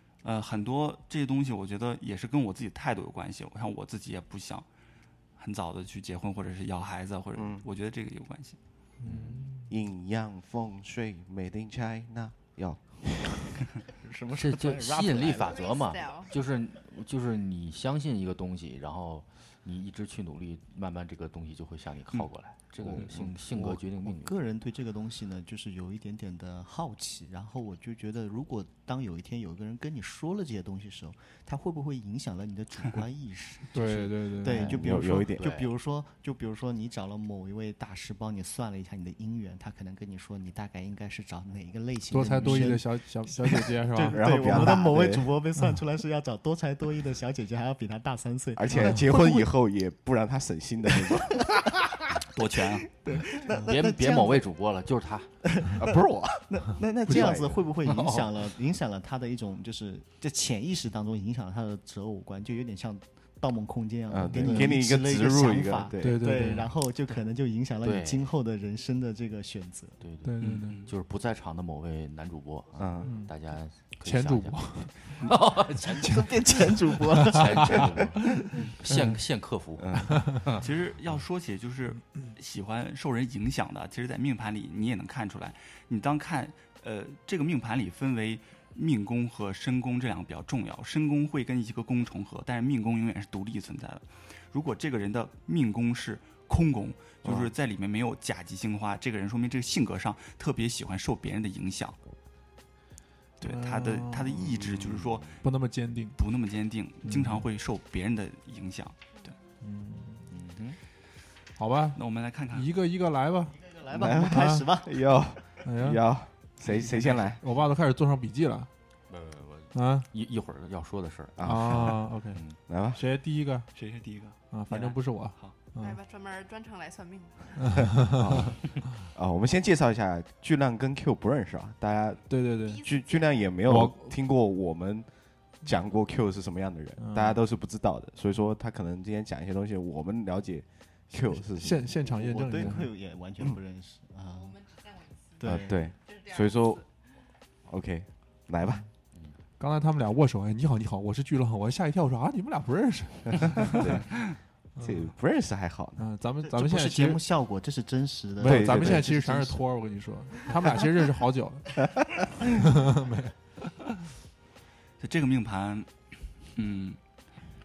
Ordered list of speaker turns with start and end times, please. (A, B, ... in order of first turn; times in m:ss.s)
0:00.2-0:04.7 A
0:05.4-0:08.6 A
0:07.4-0:07.6 B
0:09.0-0:09.7 C
0:09.0-0:09.5 D
0:09.7-0:13.6 B
0:14.0-0:15.6 E
0:14.4-0:24.4 D
0:15.3-0:16.3 F
0:22.8-0:23.1 B
0:22.9-0:49.5 E
0:33.7-0:34.8 C
0:34.5-0:35.6 B
0:35.4-0:35.7 D
0:42.1-0:44.9 C
0:44.1-0:45.3 B
0:48.6-0:51.6 B
0:52.3-0:52.9 A
0:53.0-0:54.4 E
0:53.6-0:55.3 D
0:55.5-0:56.0 E
0:55.8-0:57.6 B
0:56.5-1:10.0 E
0:57.1-0:57.4 C
0:57.8-0:58.5 D
1:04.1-1:06.2 B
1:04.4-1:04.7 C
1:06.0-1:06.7 C
1:07.8-1:08.3 D
1:10.0-1:16.5 D
1:10.2-1:10.9 C
1:10.4-1:10.9 A
1:12.8-1:13.1 B
1:13.0-1:13.3 C
1:14.0-1:15.1 C
1:15.9-1:18.6 E
1:16.1-1:17.9 C
1:17.2-1:20.6 D
1:18.9-1:19.2 C
1:19.8-1:20.4 B
1:20.6-1:42.0 A
1:37.2-1:37.5 B
1:43.4-1:44.5 C
1:43.4-1:45.4 A
1:44.6-1:45.2 B
1:45.4-1:46.2 C
1:46.2-1:49.4 A
1:47.0-1:47.5 C
1:49.6-1:50.4 C
1:50.3-1:50.8 D
1:51.6-1:52.0 C
1:52.0-1:52.7 A
1:52.5-1:54.7 C
1:53.7-1:55.0 E
1:53.9-1:57.4 B
1:55.6-1:56.0 C
1:56.8-1:57.0 A
1:57.4-1:58.7 C
1:59.1-2:02.6 D
1:59.7-2:00.1 C
2:01.4-2:02.0 B
2:01.4-2:03.7 C
2:02.7-2:03.0 B
2:03.8-2:05.6 A
2:04.5-2:06.0 C
2:05.8-2:07.8 F
2:07.6-2:08.5 C
2:08.0-2:15.1 B
2:12.3-2:12.8 C
2:12.6-2:13.6 F
2:13.7-2:14.1 C
2:15.6-2:21.9 B
2:17.0-2:17.4 C
2:21.6-2:22.9 C
2:21.9-2:24.6 E
2:24.3-2:26.9 F
2:25.4-2:25.9 E
2:25.4-2:26.8 B
2:27.7-2:28.8 B
2:29.6-2:34.0 C
2:33.4-2:34.2 B
2:34.8-2:35.1 C
2:34.8-2:36.0 B
2:36.0-2:37.2 C
2:36.4-2:39.6 E
2:38.4-2:41.7 C
2:38.4-2:39.1 B
2:42.4-2:43.3 C
2:45.0-2:45.9 A
2:46.5-2:47.0 A